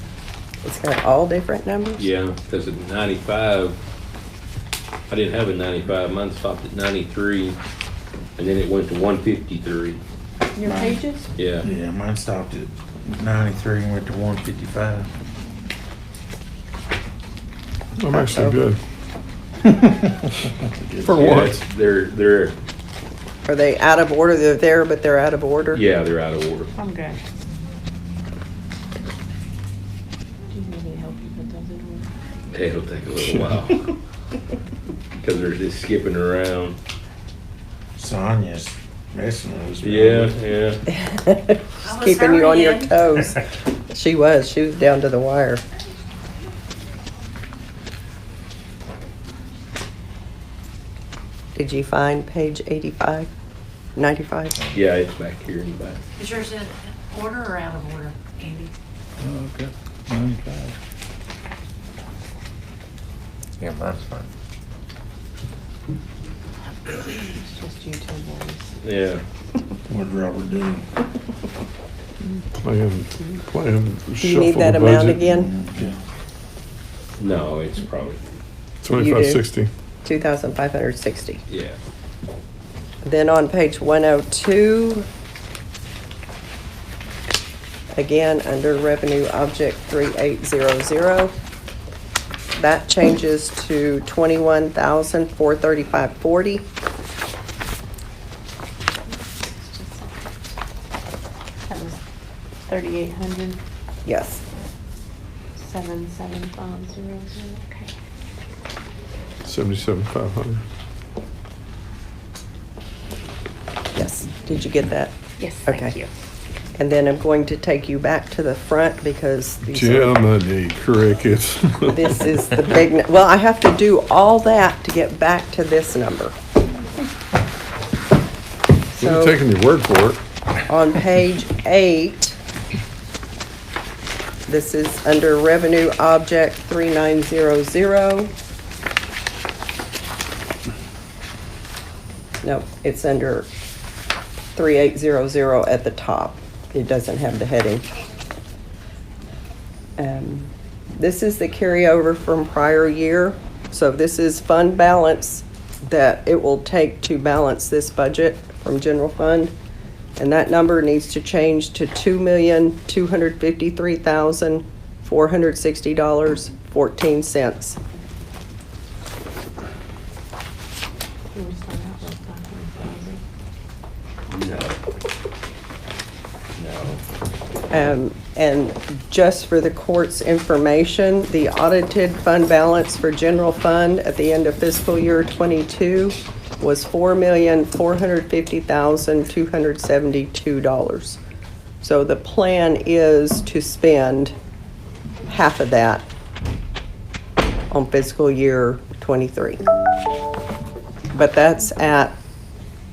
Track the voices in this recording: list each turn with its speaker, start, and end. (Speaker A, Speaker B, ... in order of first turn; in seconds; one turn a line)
Speaker A: 0.6-2.0
Speaker B: 2.0-3.8
Speaker B: 5.1-7.6
Speaker B: 8.4-10.0
Speaker C: 10.5-11.3
Speaker D: 10.6-11.0
Speaker B: 11.4-11.7
Speaker D: 11.6-15.1
Speaker E: 18.0-18.8
Speaker A: 18.1-18.6
Speaker D: 19.6-21.2
Speaker E: 21.0-21.6
Speaker B: 21.2-22.6
Speaker A: 23.4-25.8
Speaker B: 25.7-26.7
Speaker C: 26.8-27.2
Speaker C: 30.5-32.1
Speaker B: 32.5-33.9
Speaker B: 35.2-36.8
Speaker D: 38.0-40.4
Speaker B: 39.8-40.8
Speaker A: 40.9-45.6
Speaker F: 41.8-43.0
Speaker A: 51.5-53.3
Speaker A: 54.0-54.5
Speaker B: 54.7-56.0
Speaker F: 56.2-58.7
Speaker D: 59.2-60.8
Speaker D: 63.6-64.3
Speaker C: 66.9-68.7
Speaker B: 68.8-69.2
Speaker D: 69.9-70.9
Speaker E: 72.6-75.2
Speaker A: 74.2-75.5
Speaker D: 75.3-76.0
Speaker B: 77.2-78.2
Speaker E: 78.8-79.7
Speaker A: 78.9-79.4
Speaker A: 80.0-81.4
Speaker B: 81.5-81.8
Speaker A: 83.0-85.1
Speaker A: 88.0-91.3
Speaker A: 92.6-96.7
Speaker C: 99.5-100.3
Speaker C: 101.7-102.0
Speaker C: 102.7-103.6
Speaker A: 104.0-104.4
Speaker C: 105.6-107.9
Speaker E: 109.4-110.6
Speaker A: 113.9-116.0
Speaker C: 115.4-116.1
Speaker A: 116.8-120.2
Speaker E: 119.7-122.1
Speaker A: 121.9-126.3
Speaker A: 128.9-129.4
Speaker E: 129.0-130.2
Speaker A: 130.7-132.4
Speaker A: 134.5-138.3
Speaker A: 142.4-143.5
Speaker A: 144.6-147.8
Speaker A: 150.0-159.5
Speaker A: 160.2-167.8
Speaker C: 171.3-173.2
Speaker B: 174.3-174.8
Speaker B: 176.6-177.0
Speaker A: 177.7-191.2
Speaker A: 191.8-194.3
Speaker A: 195.3-196.0
Speaker A: 197.7-199.6
Speaker A: 201.1-202.2